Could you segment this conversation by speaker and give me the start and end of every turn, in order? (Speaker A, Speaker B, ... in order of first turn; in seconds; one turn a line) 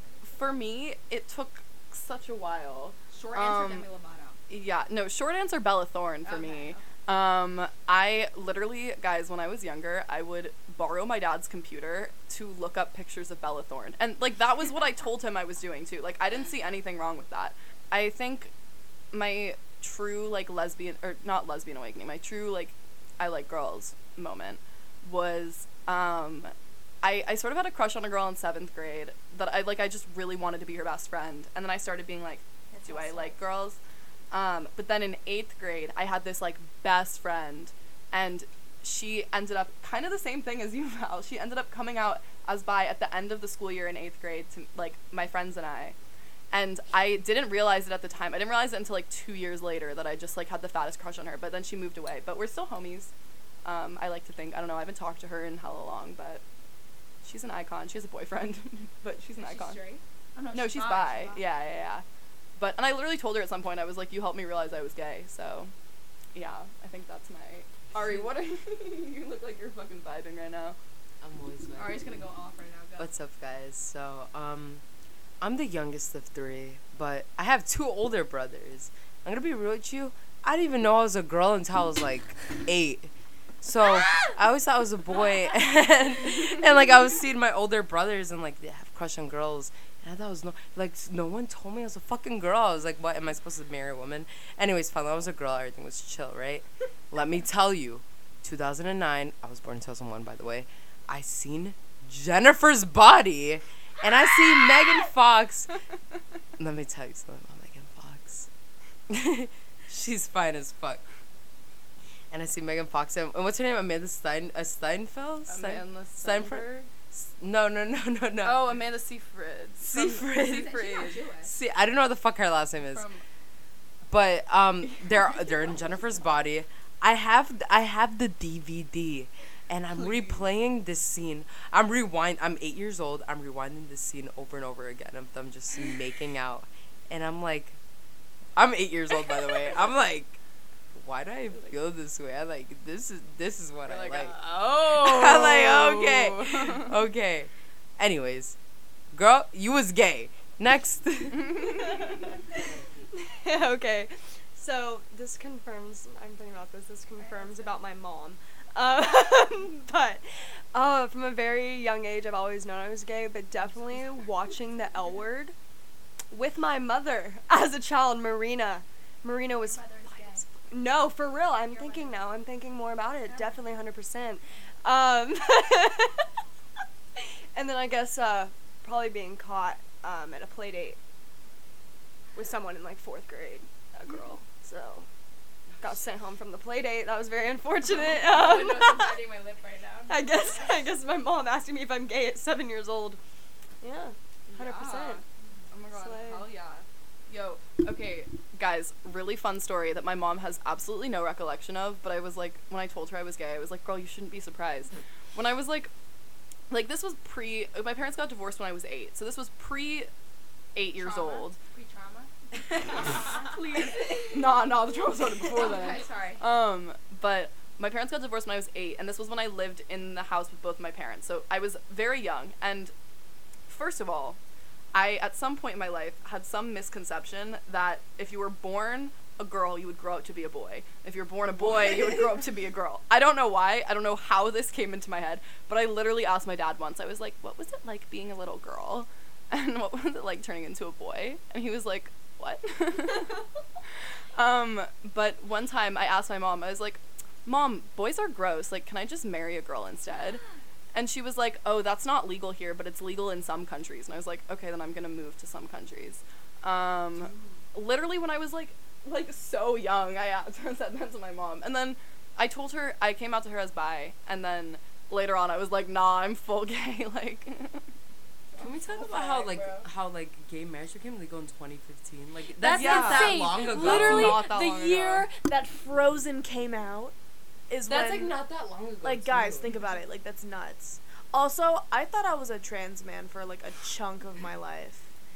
Speaker A: 0.2-3.9
Speaker B: 3.1-4.4
Speaker A: 4.5-18.5
Speaker B: 6.2-6.9
Speaker A: 19.1-33.8
Speaker B: 32.7-33.4
Speaker A: 34.3-46.0
Speaker A: 46.5-53.1
Speaker A: 53.6-56.4
Speaker A: 57.2-59.8
Speaker B: 59.4-61.4
Speaker A: 60.5-62.0
Speaker A: 62.6-65.7
Speaker A: 66.3-70.8
Speaker C: 71.2-72.2
Speaker B: 71.7-73.1
Speaker C: 73.0-74.8
Speaker C: 75.4-83.1
Speaker C: 83.6-105.8
Speaker C: 106.6-108.5
Speaker C: 109.1-111.0
Speaker C: 112.3-118.8
Speaker A: 115.5-116.9
Speaker A: 118.4-121.2
Speaker C: 119.8-123.1
Speaker B: 120.3-121.5
Speaker A: 122.9-123.2
Speaker C: 124.1-137.8
Speaker A: 130.0-130.4
Speaker C: 138.6-140.4
Speaker C: 140.9-148.6
Speaker A: 143.8-146.9
Speaker C: 149.1-152.0
Speaker D: 151.8-152.1
Speaker D: 153.1-165.5
Speaker B: 157.2-157.8
Speaker D: 166.3-176.2
Speaker B: 169.6-170.5
Speaker B: 171.6-172.2
Speaker B: 173.2-173.6
Speaker D: 177.5-181.0
Speaker D: 182.3-185.1
Speaker D: 185.8-189.2
Speaker B: 188.0-190.8
Speaker D: 190.1-193.2
Speaker D: 193.8-195.2
Speaker A: 194.5-205.9
Speaker D: 195.9-196.5
Speaker A: 206.7-210.1
Speaker A: 210.7-211.6
Speaker B: 210.9-214.5
Speaker A: 213.0-222.9
Speaker B: 215.4-216.4
Speaker A: 223.7-224.4
Speaker A: 224.9-243.4
Speaker A: 244.3-250.4
Speaker A: 250.9-267.8
Speaker C: 268.6-274.4
Speaker E: 269.0-269.8
Speaker E: 272.6-277.1
Speaker A: 272.7-275.3
Speaker B: 272.8-273.2
Speaker E: 277.7-278.4
Speaker C: 277.9-279.7
Speaker E: 279.0-285.0